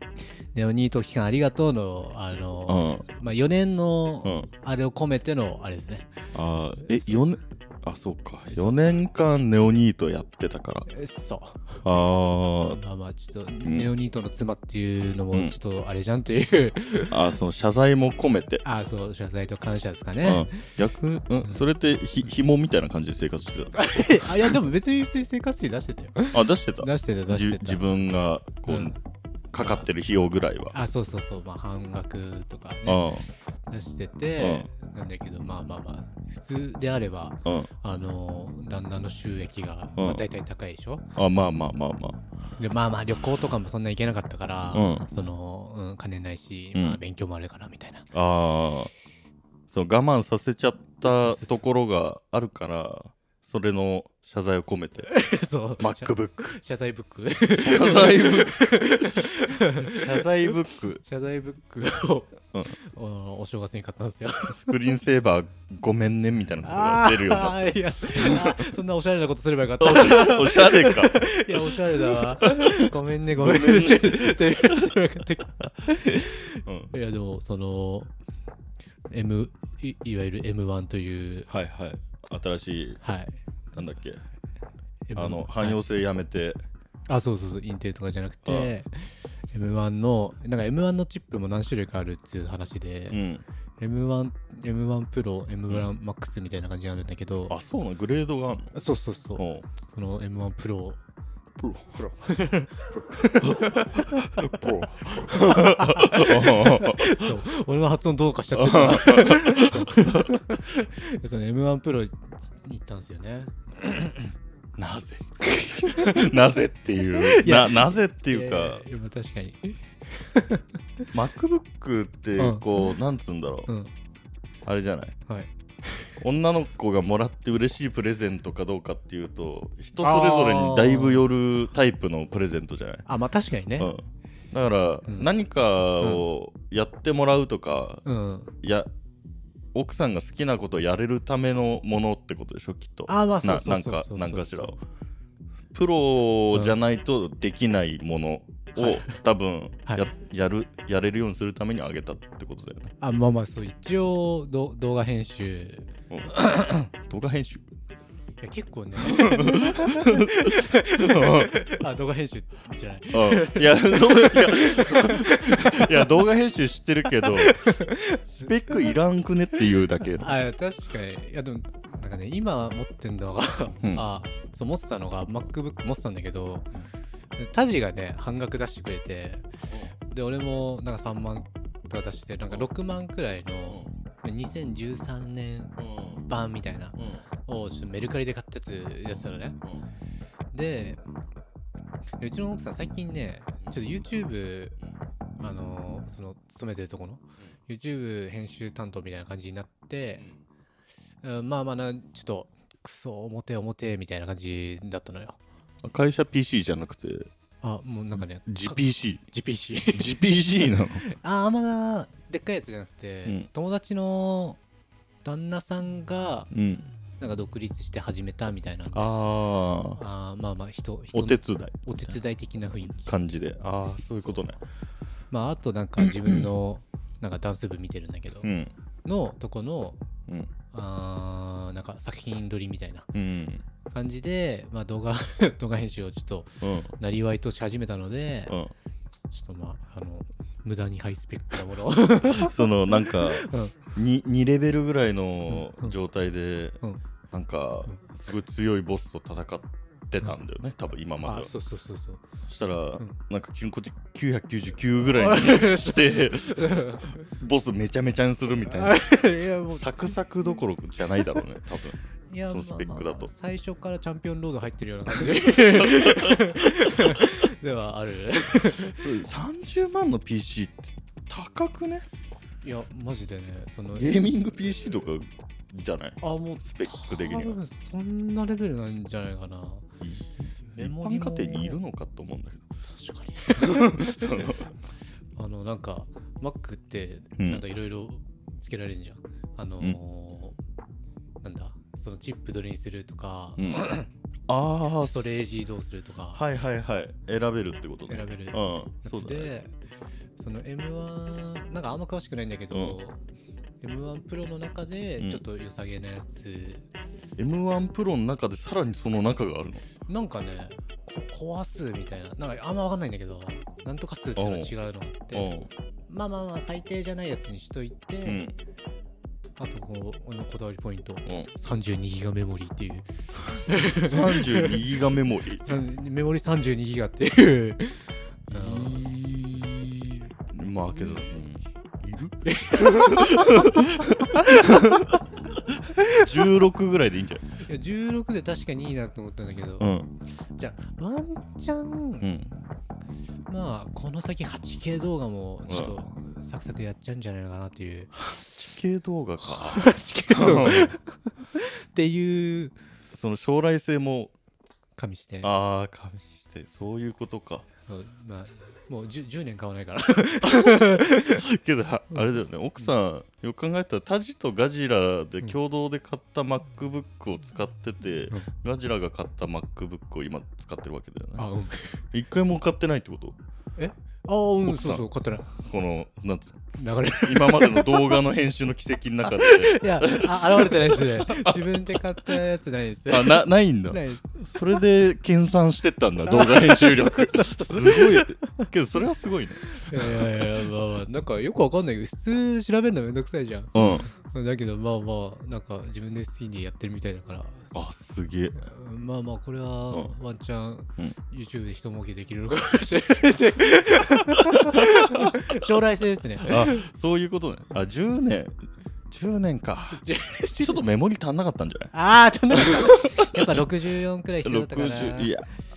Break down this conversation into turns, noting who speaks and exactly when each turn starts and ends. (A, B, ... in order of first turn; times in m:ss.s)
0:00.5-0:06.1 A
0:02.7-0:03.0 B
0:06.3-0:10.9 B
0:06.9-0:07.2 A
0:08.5-0:08.8 A
0:10.9-0:11.8 A
0:11.8-0:12.8 B
0:12.7-0:17.2 A
0:13.6-0:13.9 B
0:17.1-0:18.6 B
0:18.6-0:20.7 A
0:20.2-0:24.6 B
0:23.7-0:27.8 A
0:26.3-0:28.9 B
0:28.7-0:29.0 A
0:29.5-0:30.8 B
0:30.7-0:41.1 A
0:32.8-0:33.3 B
0:34.4-0:34.7 B
0:40.0-0:40.2 B
0:41.2-0:42.2 B
0:42.6-0:48.1 A
0:44.7-0:45.1 B
0:46.7-0:47.0 B
0:48.1-0:48.9 B
0:49.7-0:55.1 B
0:51.0-0:51.6 A
0:55.1-1:04.7 A
0:55.8-0:56.6 B
0:57.6-0:59.2 B
0:59.9-1:01.0 B
1:04.4-1:08.7 B
1:06.6-1:18.1 A
1:09.8-1:14.8 B
1:16.7-1:16.9 B
1:19.1-1:21.5 A
1:21.5-1:23.0 B
1:23.0-1:23.4 A
1:23.7-1:24.2 B
1:25.1-1:25.8 A
1:25.2-1:26.6 B
1:27.1-1:33.2 A
1:28.4-1:28.7 B
1:33.1-1:33.4 B
1:33.8-1:37.6 A
1:37.5-1:38.7 B
1:38.7-1:41.0 A
1:39.4-1:39.7 B
1:41.6-1:42.1 B
1:42.2-1:54.3 A
1:43.4-1:47.3 B
1:48.6-1:50.4 B
1:54.8-1:58.8 B
1:55.4-1:56.3 A
1:57.1-2:00.7 A
2:01.1-2:03.7 B
2:02.4-2:03.0 A
2:03.7-2:03.9 A
2:04.7-2:05.2 B
2:05.3-2:06.1 A
2:06.2-2:13.1 B
2:10.0-2:11.2 A
2:13.1-2:13.9 A
2:13.8-2:18.0 B
2:15.1-2:15.3 A
2:18.0-2:18.5 A
2:18.6-2:18.9 B
2:19.7-2:24.8 B
2:23.1-2:24.8 A
2:25.7-2:32.9 B
2:28.8-2:29.2 A
2:33.0-2:35.9 A
2:36.1-2:37.6 B
2:38.4-2:46.3 A
2:39.0-2:41.6 B
2:43.1-2:50.4 B
2:47.2-2:48.9 A
2:50.2-2:56.7 A
2:57.4-2:59.5 A
3:00.0-3:09.6 A
3:05.8-3:06.2 B
3:07.0-3:07.2 B
3:10.5-3:11.0 A
3:12.2-3:14.8 A
3:15.4-3:20.3 A
3:21.2-3:25.4 A
3:25.8-3:27.3 B
3:27.6-3:34.6 A
3:28.4-3:29.2 B
3:29.9-3:31.0 B
3:35.2-3:36.5 A
3:36.5-3:36.9 B
3:37.2-3:39.2 A
3:38.9-3:40.0 B
3:40.0-3:43.1 A
3:41.1-3:41.8 B
3:43.0-3:44.6 B
3:43.8-3:44.6 A
3:45.3-3:48.5 A
3:48.4-3:48.7 B
3:49.0-3:50.0 A
3:50.7-3:53.1 A
3:53.1-3:53.6 B
3:53.9-3:58.6 A
3:56.6-3:56.9 B
3:58.5-3:58.7 B
3:59.3-4:03.8 A
4:02.3-4:06.8 B
4:05.5-4:06.0 A
4:07.3-4:11.5 B
4:11.2-4:12.2 A
4:12.5-4:19.0 B
4:15.1-4:17.3 A
4:18.6-4:20.1 A
4:19.7-4:23.3 B
4:22.3-4:29.1 A
4:25.3-4:27.2 B
4:28.8-4:32.1 B
4:32.6-4:34.9 A
4:34.0-4:37.6 B
4:36.2-4:39.9 A
4:40.0-4:42.7 B
4:40.8-4:41.8 A
4:42.9-4:44.8 A
4:43.6-4:44.7 B
4:45.4-4:50.6 A
4:47.4-4:47.6 B
4:51.4-4:54.1 A
4:53.6-4:53.9 B
4:54.5-4:55.5 B
4:55.0-4:56.4 A
4:56.3-4:59.5 B
4:58.1-4:59.8 A
5:00.4-5:03.2 A
5:02.7-5:03.0 B
5:03.8-5:06.9 A
5:07.4-5:09.9 B
5:10.1-5:18.5 A
5:14.4-5:14.8 B
5:15.3-5:15.7 B
5:18.2-5:18.6 B
5:19.6-5:24.8 A
5:23.4-5:25.7 B
5:25.6-5:29.1 A
5:28.5-5:35.0 B
5:31.0-5:31.4 A
5:32.4-5:35.2 A
5:35.9-5:36.3 A
5:36.1-5:37.4 B
5:37.7-5:42.3 A
5:39.8-5:40.1 B
5:42.2-5:42.6 B
5:43.5-5:48.3 A
5:45.7-5:46.0 B
5:48.3-5:51.0 B
5:49.4-5:52.8 A
5:53.1-5:54.3 B
5:55.0-5:55.5 A
5:55.4-5:57.6 B
5:57.8-6:01.4 A
6:00.4-6:11.5 B
6:11.4-6:12.0 A
6:12.1-6:13.4 B
6:13.8-6:15.5 A
6:14.6-6:16.6 B
6:16.8-6:18.2 A
6:17.2-6:22.4 B
6:19.3-6:24.8 A
6:23.1-6:30.4 B
6:26.3-6:28.7 A
6:29.7-6:37.9 A
6:33.7-6:34.1 B
6:37.8-6:38.6 B
6:38.5-6:46.9 A
6:44.7-6:45.4 B
6:46.4-6:48.6 B
6:49.1-6:50.1 B
6:50.0-6:50.8 A
6:50.6-6:51.9 B
6:51.9-6:55.3 A
6:52.5-6:53.4 B
6:54.4-6:55.5 B